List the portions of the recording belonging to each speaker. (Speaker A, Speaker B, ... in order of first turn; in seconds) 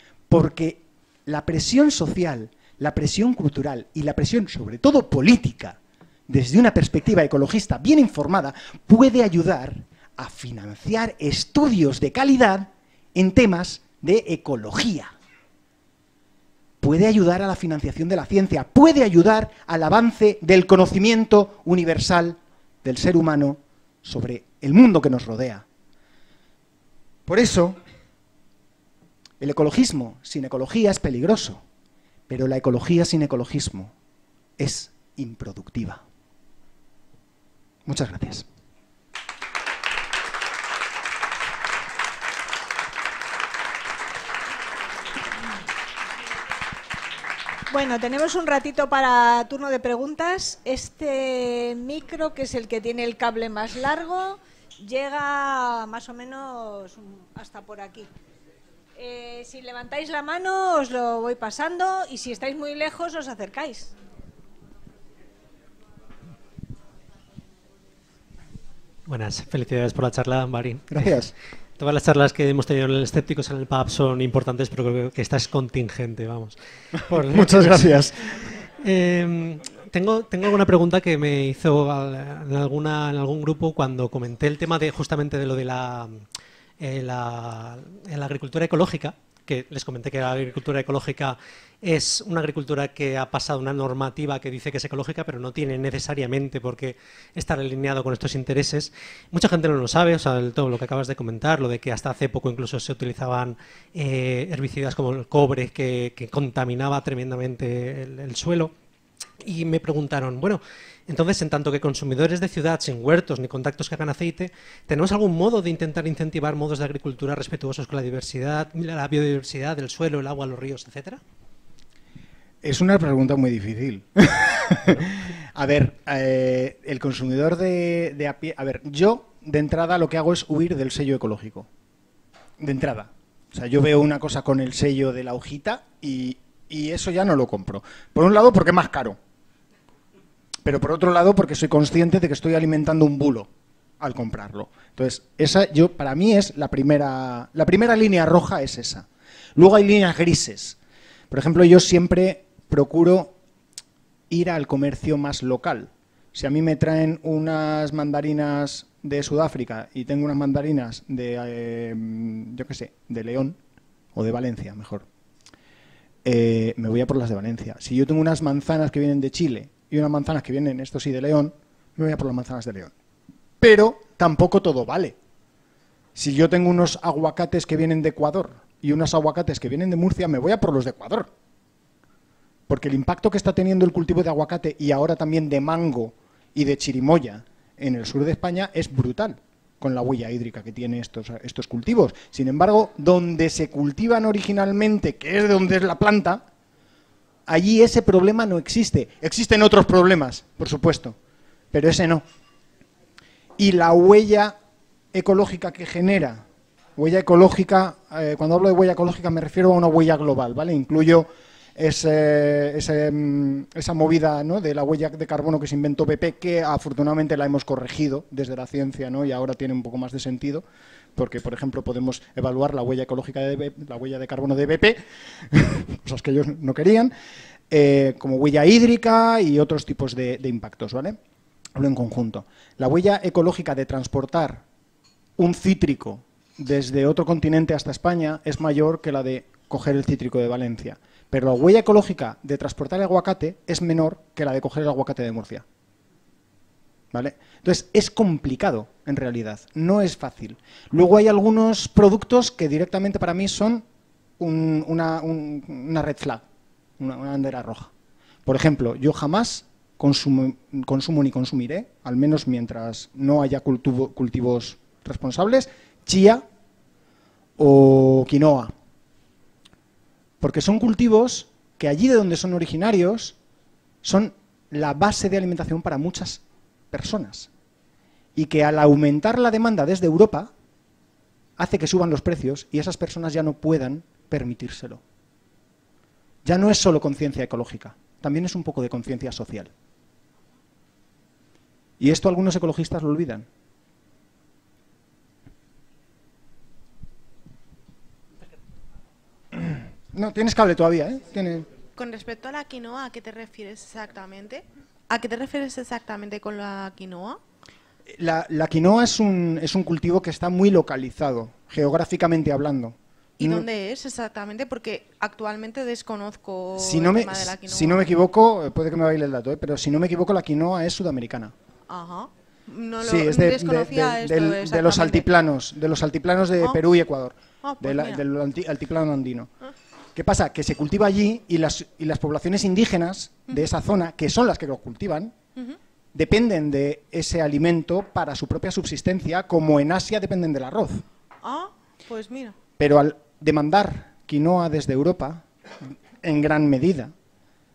Speaker A: 0.3-15.1, 16.8-25.6, 27.3-27.8, 29.4-31.6, 32.3-33.9, 34.6-36.0, 37.9-38.5, 70.9-71.3, 77.1-78.2, 122.6-131.7, 132.6-139.2, 140.7-143.5, 144.0-150.8, 151.3-153.3, 154.3-163.6, 164.2-165.1, 166.2-172.9, 173.6-175.2, 176.2-181.3, 182.7-196.4, 197.5-201.2, 201.7-202.2, 203.6-204.6, 205.1-206.4, 207.0-220.7, 221.2-227.1, 227.7-231.2, 231.8-234.6, 235.4-245.7, 247.1-253.8, 254.4-256.4, 257.0-257.9, 258.5-266.4, 267.6-268.7, 270.4-273.4, 274.0-277.5, 278.4-280.5, 281.6-285.0, 286.4-289.7, 292.0-293.5, 299.5-301.7, 308.1-313.7, 316.8-321.5, 323.0-329.5, 330.1-335.4, 336.1-341.0, 342.8-347.1
Speaker B: 47.7-58.1, 59.0-63.9
Speaker C: 69.1-71.2, 71.8-76.6, 77.1-77.9, 78.8-86.2, 86.8-108.7, 109.4-121.2
Speaker D: 302.0-307.4, 313.4-318.1, 321.9-325.3, 327.6-328.2, 341.4-342.6